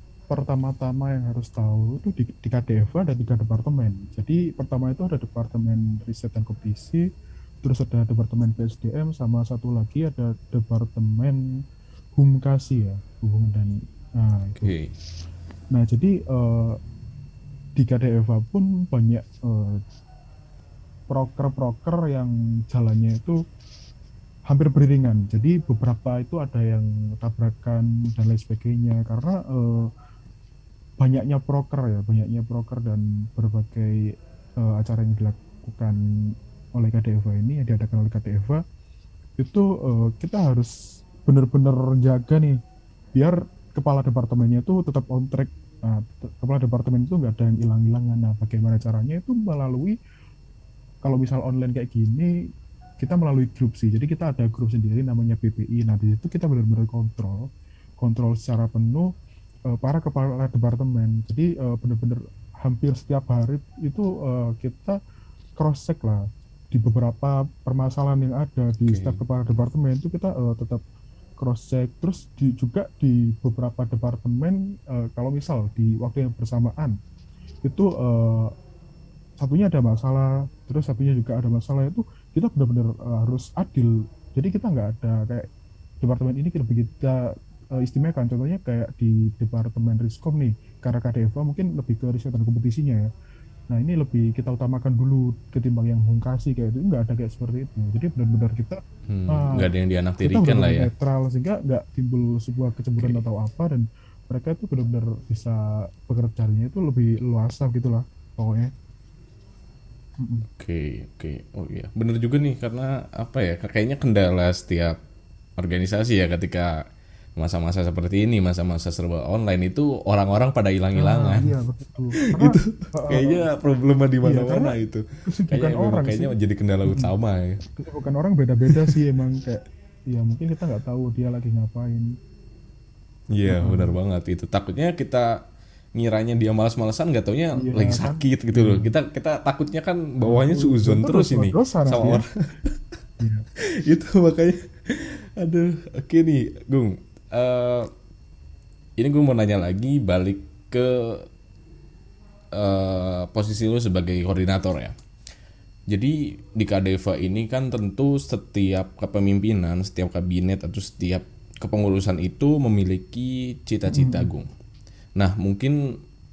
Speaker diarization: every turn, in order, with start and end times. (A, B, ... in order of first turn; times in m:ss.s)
0:00.3-0:07.0 A
0:07.6-0:11.4 A
0:12.2-0:14.7 A
0:14.6-0:14.9 B
0:15.7-0:16.8 A
0:17.8-0:19.8 A
0:21.1-0:23.4 A
0:24.5-0:29.9 A
0:31.0-0:33.9 A
0:34.6-0:36.0 A
0:36.7-0:38.6 A
0:39.4-0:40.7 A
0:41.2-0:42.6 A
0:43.1-0:49.9 A
0:51.0-0:52.3 A
0:53.0-0:57.5 A
0:58.0-0:59.1 A
0:59.7-1:05.0 A
1:05.6-1:10.8 A
1:08.9-1:09.2 B
1:11.4-1:17.0 A
1:17.6-1:18.5 A
1:19.4-1:25.5 A
1:26.0-1:33.1 A
1:33.7-1:39.7 A
1:39.1-1:40.9 B
1:40.2-1:48.7 A
1:43.0-1:43.2 B
1:50.2-1:50.5 A
1:50.6-1:55.0 B
1:55.6-1:56.8 B
1:57.4-2:01.5 B
2:01.0-2:03.5 A
2:02.2-2:07.6 B
2:04.2-2:04.7 A
2:05.2-2:06.3 A
2:06.8-2:07.1 A
2:07.8-2:12.1 A
2:08.7-2:08.9 B
2:13.3-2:15.4 B
2:13.5-2:13.9 A
2:16.0-2:22.8 B
2:17.6-2:18.9 A
2:20.2-2:22.2 A
2:23.2-2:23.4 A
2:23.8-2:27.9 B
2:29.0-2:31.3 B
2:32.5-2:35.0 B
2:35.9-2:44.5 B
2:43.9-2:44.3 A
2:45.2-2:45.8 B